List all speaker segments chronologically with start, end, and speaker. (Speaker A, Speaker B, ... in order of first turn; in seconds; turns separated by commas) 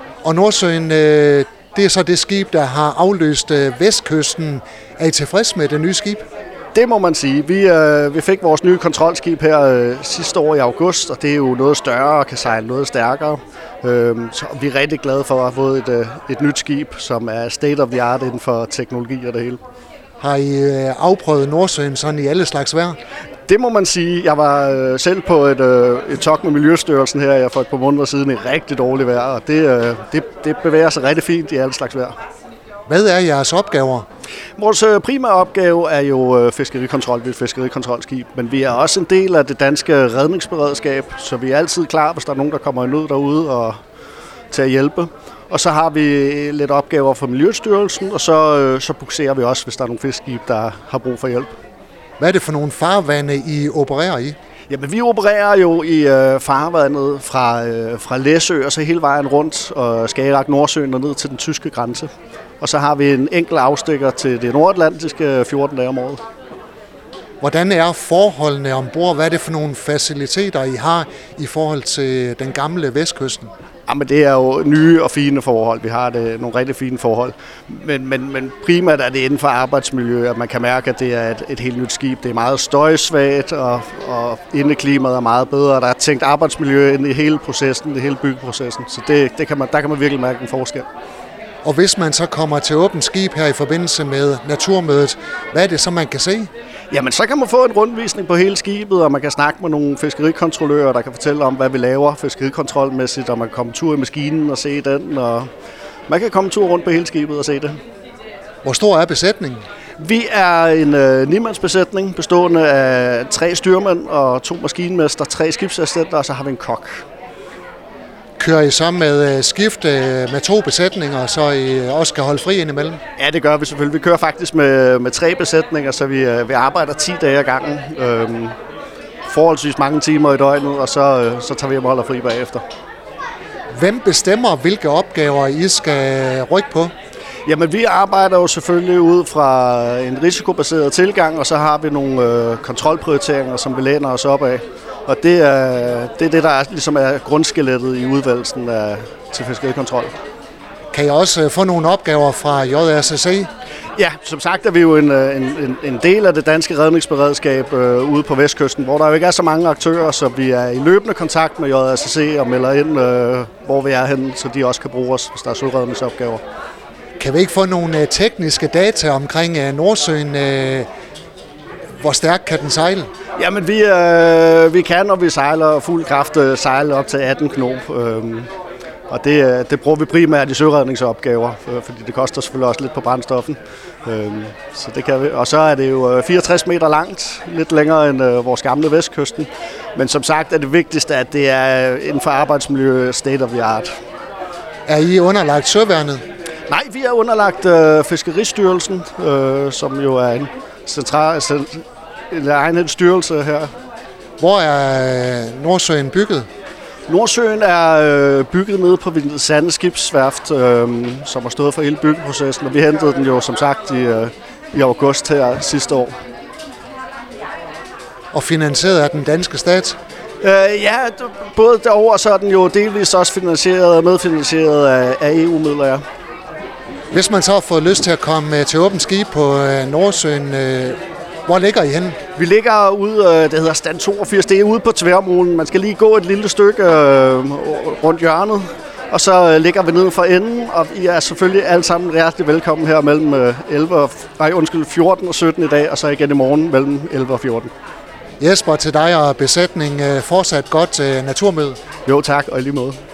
Speaker A: 0.2-6.2, Speaker B: 6.7-19.6, Speaker A: 20.2-23.0, Speaker B: 23.5-32.1, Speaker A: 32.9-34.0, Speaker B: 34.6-43.8, Speaker B: 44.5-51.5, Speaker A: 52.2-54.4, Speaker B: 54.7-66.2, Speaker A: 67.4-73.5, Speaker B: 73.9-90.8, Speaker A: 91.6-96.5, Speaker B: 96.9-105.5, Speaker B: 106.1-107.8, Speaker A: 108.6-109.6, Speaker B: 110.0-117.0, Speaker A: 118.4-123.0, Speaker B: 123.2-128.6, Speaker B: 129.2-132.6, Speaker A: 133.7-136.9, Speaker B: 137.4-150.1, Speaker A: 150.9-153.5, Speaker B: 153.9-166.4, Speaker A: 167.2-170.9, Speaker A: 172.0-173.1, Speaker B: 173.4-178.5, Speaker B: 179.1-193.9, Speaker A: 194.9-196.2, Speaker B: 196.7-203.7, Speaker A: 204.4-206.5, Speaker B: 207.1-216.2, Speaker A: 218.3-220.0, Speaker B: 220.4-226.0, Speaker A: 227.1-232.2, Speaker B: 232.3-247.7, Speaker A: 248.4-251.8, Speaker B: 252.1-253.0